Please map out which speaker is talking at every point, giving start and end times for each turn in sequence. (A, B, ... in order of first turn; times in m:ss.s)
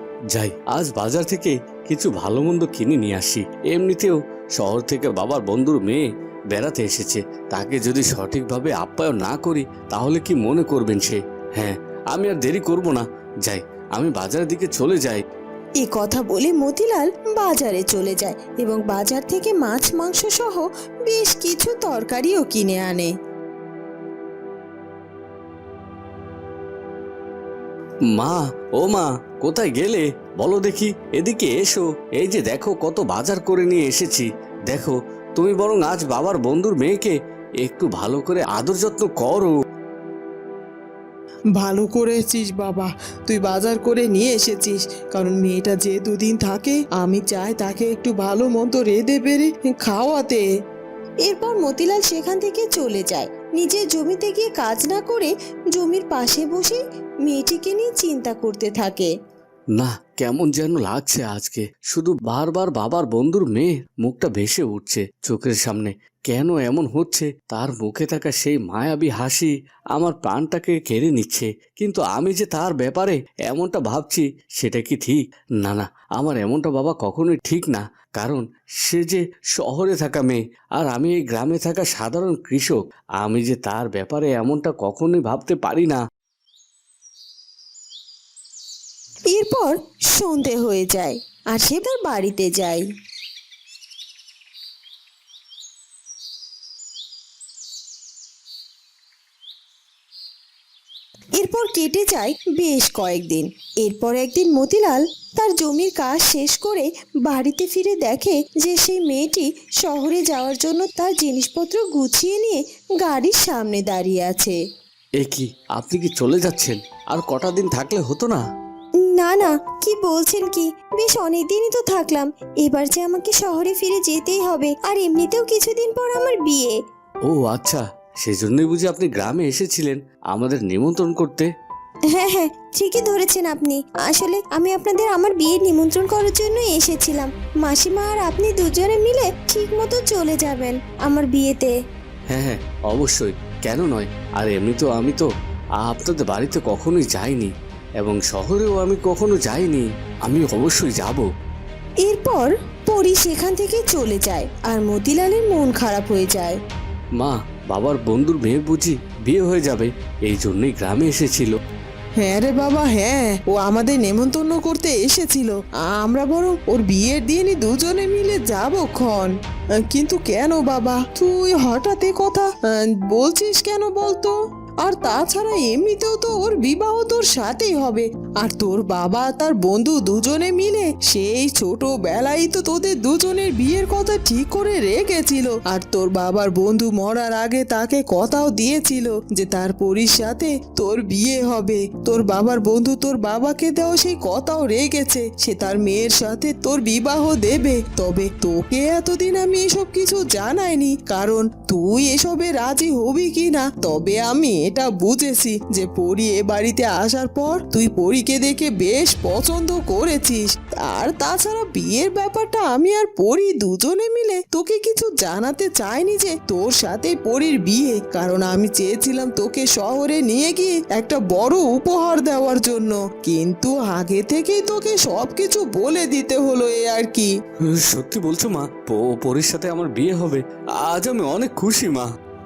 0:00.3-0:15.2 A
0:15.8-0:23.1 B
0:28.1-0:39.5 A
0:41.6-0:50.4 C
0:51.2-0:59.1 B
0:59.7-1:26.0 A
1:29.3-1:32.9 B
1:41.3-1:54.6 B
1:55.2-1:58.4 A
1:59.0-2:06.8 B
2:07.2-2:11.5 A
2:12.1-2:21.7 B
2:22.3-2:25.3 A
2:25.8-2:31.3 A
2:32.0-2:36.6 B
2:37.2-2:41.6 A
2:42.2-2:49.3 C
2:49.9-3:47.3 C
3:47.6-3:52.1 A